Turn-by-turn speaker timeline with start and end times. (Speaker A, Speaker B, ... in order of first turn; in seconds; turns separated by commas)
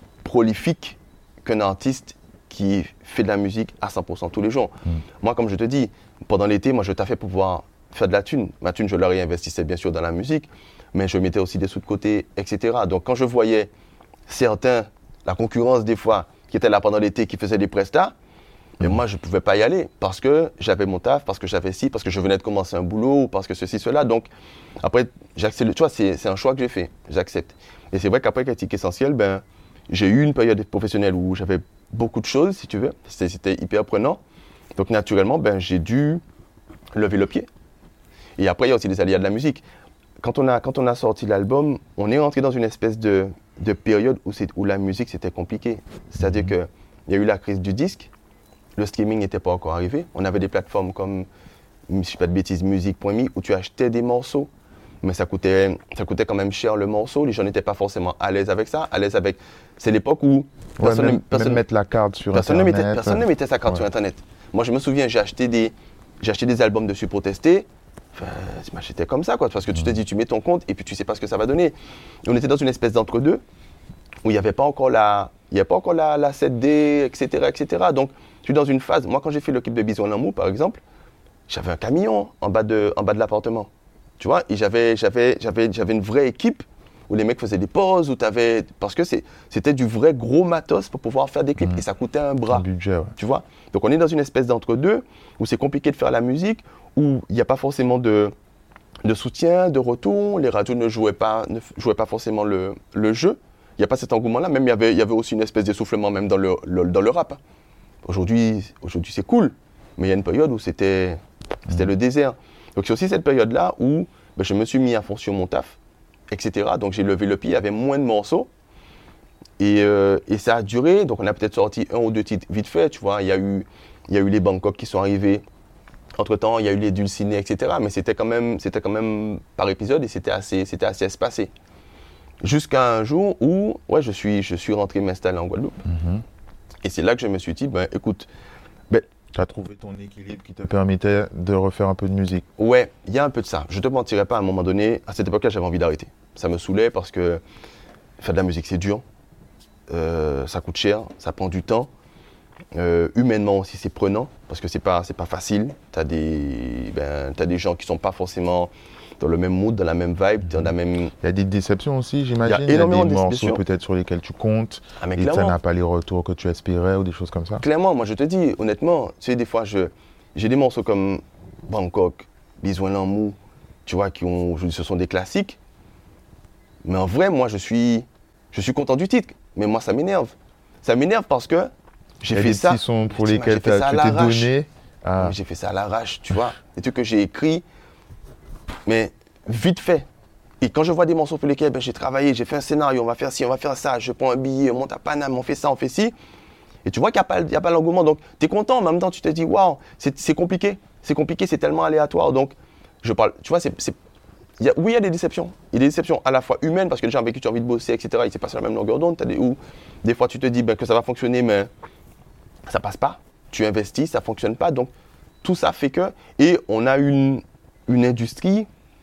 Speaker A: 0.2-13.7, Speaker A: 14.3-18.1, Speaker A: 18.8-24.3, Speaker A: 24.8-34.2, Speaker A: 34.8-36.2, Speaker A: 36.9-37.5, Speaker A: 38.4-39.6, Speaker A: 40.2-48.1, Speaker B: 46.2-46.5, Speaker A: 48.8-51.2, Speaker A: 51.9-54.5, Speaker A: 55.0-61.6, Speaker B: 60.8-63.3, Speaker A: 62.3-71.7, Speaker A: 72.2-73.4, Speaker A: 74.2-80.8, Speaker A: 81.5-92.6, Speaker B: 92.5-93.1, Speaker A: 93.2-98.3, Speaker A: 99.0-107.4, Speaker A: 108.0-115.8, Speaker A: 116.3-118.5, Speaker A: 119.6-125.4, Speaker A: 126.2-131.5, Speaker A: 132.4-135.8, Speaker B: 135.8-136.2, Speaker A: 136.8-138.3, Speaker B: 139.3-142.4, Speaker A: 142.6-147.4, Speaker A: 148.2-149.0, Speaker A: 149.9-151.9, Speaker A: 152.7-161.1, Speaker B: 161.2-167.6, Speaker A: 162.4-163.6, Speaker A: 165.0-165.6, Speaker A: 167.6-175.6, Speaker A: 176.8-184.5, Speaker B: 182.3-185.3, Speaker A: 185.2-187.6, Speaker A: 188.8-190.1, Speaker A: 190.6-196.1, Speaker A: 196.8-203.9, Speaker A: 204.6-211.7, Speaker A: 212.7-214.9, Speaker A: 215.4-218.7